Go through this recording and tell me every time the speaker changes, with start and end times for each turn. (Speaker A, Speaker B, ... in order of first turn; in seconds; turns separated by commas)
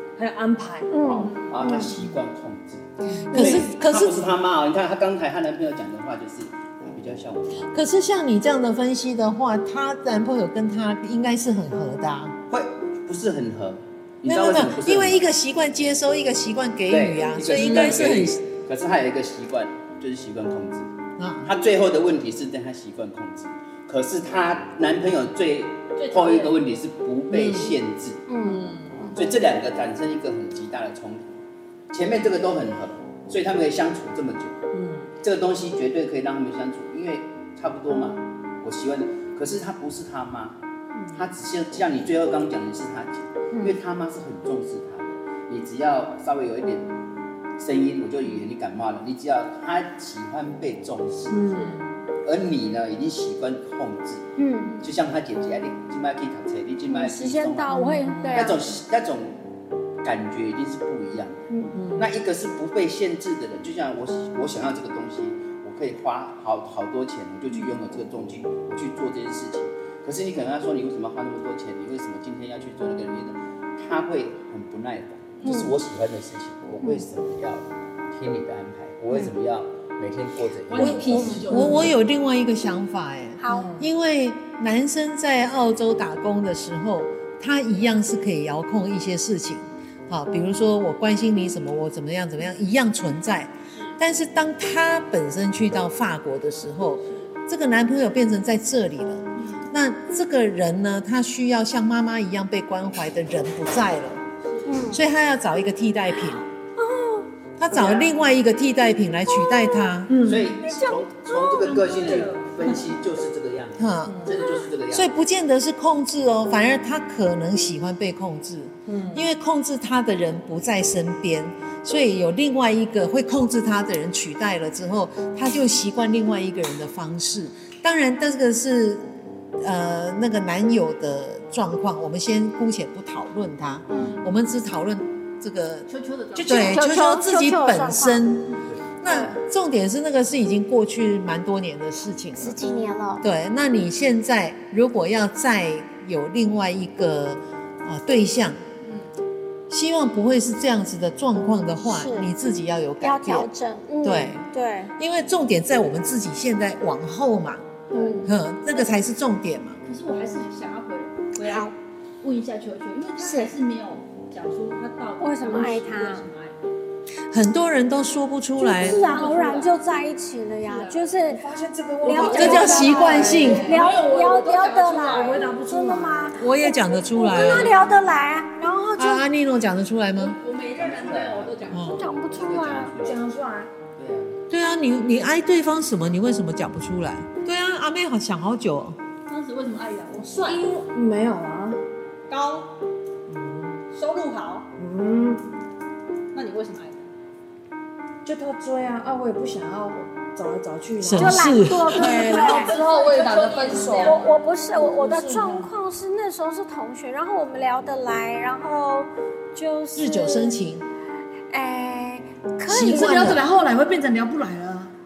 Speaker A: 0.2-1.3, Speaker B: 0.9-1.9, Speaker C: 1.0-7.7, Speaker D: 3.3-4.2, Speaker B: 3.3-3.6, Speaker D: 7.7-12.3, Speaker C: 12.5-15.2, Speaker D: 14.2-18.4, Speaker C: 16.9-20.9, Speaker D: 21.2-21.5, Speaker C: 21.4-28.2, Speaker E: 26.0-26.6, Speaker A: 27.3-27.8, Speaker B: 28.3-29.2, Speaker A: 28.4-29.1, Speaker C: 29.1-31.2, Speaker C: 31.9-34.6, Speaker A: 34.7-35.1, Speaker C: 35.2-40.6, Speaker A: 41.0-41.2, Speaker C: 41.1-46.9, Speaker C: 47.6-51.4, Speaker A: 51.3-51.8, Speaker E: 51.5-51.8, Speaker C: 52.2-54.3, Speaker B: 54.4-54.8, Speaker C: 54.8-57.7, Speaker B: 56.9-58.6, Speaker A: 57.7-58.4, Speaker C: 58.3-59.4, Speaker C: 60.0-81.5, Speaker B: 61.5-61.8, Speaker A: 61.7-62.1, Speaker B: 75.4-75.7, Speaker E: 80.7-81.9, Speaker D: 80.8-104.2, Speaker B: 81.1-81.4, Speaker B: 83.4-83.7, Speaker A: 83.5-83.8, Speaker E: 97.0-97.3, Speaker E: 99.3-99.7, Speaker E: 104.4-104.8, Speaker B: 104.7-105.0, Speaker D: 104.8-106.4, Speaker B: 106.1-107.3, Speaker D: 107.6-110.2, Speaker C: 107.8-108.0, Speaker B: 109.3-109.9, Speaker A: 110.1-110.5, Speaker C: 110.2-115.1, Speaker B: 110.6-111.8, Speaker E: 111.3-112.9, Speaker D: 113.8-114.3, Speaker A: 114.0-114.3, Speaker D: 114.9-129.1, Speaker A: 118.9-119.2, Speaker D: 129.6-142.6, Speaker B: 133.9-134.2, Speaker E: 135.9-136.8, Speaker B: 136.5-138.3, Speaker B: 139.0-139.4, Speaker B: 142.4-143.2, Speaker D: 143.2-148.6, Speaker E: 148.8-149.1, Speaker D: 149.7-153.5, Speaker B: 151.8-152.3, Speaker B: 153.0-154.9, Speaker D: 154.0-154.4, Speaker D: 155.0-159.8, Speaker E: 157.9-158.2, Speaker B: 157.9-158.3, Speaker E: 159.8-166.6, Speaker B: 161.4-161.7, Speaker B: 163.2-163.5, Speaker B: 165.2-166.2, Speaker D: 167.3-169.0, Speaker B: 168.6-171.4, Speaker E: 168.8-169.7, Speaker E: 170.6-171.1, Speaker A: 171.2-173.9, Speaker B: 172.0-179.2, Speaker D: 172.1-173.7, Speaker E: 172.3-175.5, Speaker A: 175.0-176.4, Speaker D: 176.4-177.8, Speaker D: 179.0-180.4, Speaker E: 180.2-182.2, Speaker C: 180.7-183.2, Speaker D: 181.7-182.1, Speaker B: 181.9-182.9, Speaker A: 183.0-183.7, Speaker C: 183.9-184.4, Speaker D: 184.5-189.0, Speaker E: 189.3-190.6, Speaker A: 190.3-191.8, Speaker E: 192.3-192.7, Speaker D: 193.3-193.8, Speaker E: 193.9-194.7, Speaker A: 194.8-195.4, Speaker E: 196.3-197.1, Speaker A: 198.2-205.7, Speaker D: 201.0-202.4, Speaker B: 201.2-202.7, Speaker E: 202.1-204.2, Speaker B: 204.0-210.6, Speaker D: 209.9-210.8, Speaker B: 211.5-213.4, Speaker D: 212.7-213.4, Speaker A: 212.8-214.9